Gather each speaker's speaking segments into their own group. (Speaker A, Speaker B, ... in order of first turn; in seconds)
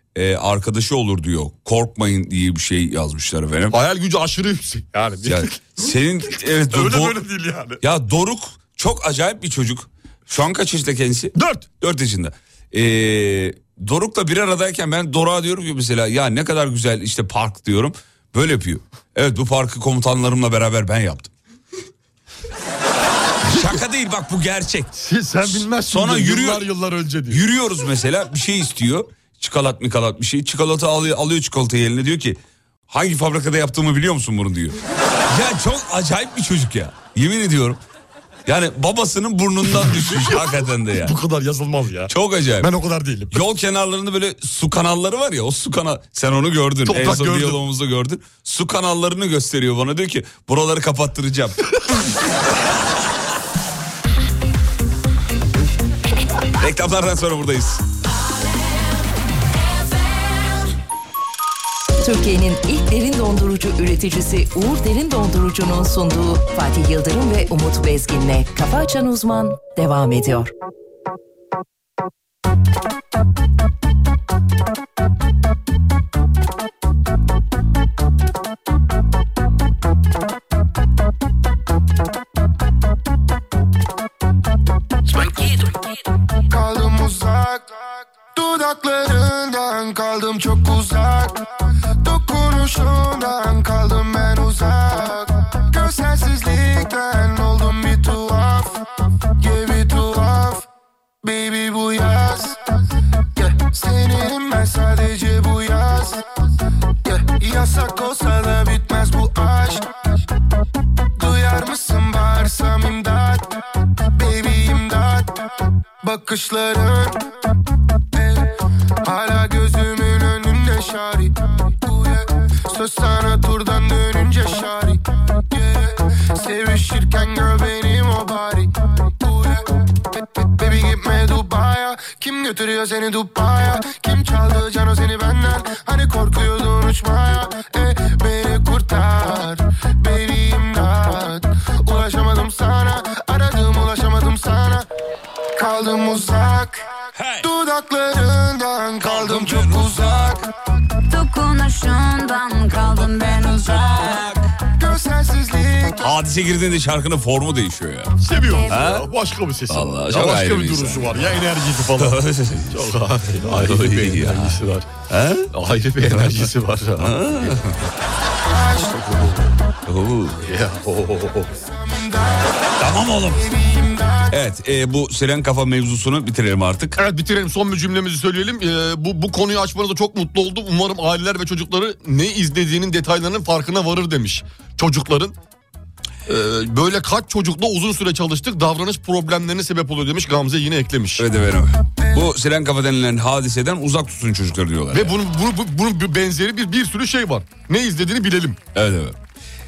Speaker A: 0.1-3.8, 5.2-7.2, 7.8-21.3, 23.4-26.7, 27.3-37.8, 38.5-41.1, 42.1-42.7, 43.3-51.6, 56.6-57.8, 147.2-147.5, 149.0-150.2, 156.0-158.1, 158.7-159.1, 159.7-161.4, 162.0-162.9, 163.5-165.5, 166.1-167.8, 169.9-170.4, 172.8-173.4, 174.3-177.0, 191.2-195.2, 198.8-199.2
Speaker B: 3.7-5.9, 6.6-7.8, 11.3-11.7, 25.0-27.4, 39.7-43.4, 46.9-47.6, 158.2-164.9, 165.5-167.6, 168.8-169.5, 170.4-171.5, 177.0-185.3, 186.3-191.3, 194.9-198.6
Speaker C: 62.0-70.5
Speaker D: 86.5-87.8, 88.3-91.5, 92.0-98.8, 99.4-100.7, 101.2-102.6, 103.4-106.2, 107.0-109.9, 111.2-113.5, 114.1-115.4, 116.0-117.2, 118.1-118.5, 119.0-129.7, 130.4-144.9, 145.6-146.9, 147.4-150.5, 154.8-156.1, 168.5-168.8, 171.8-172.7, 173.3-174.3
Speaker E: 151.1-154.3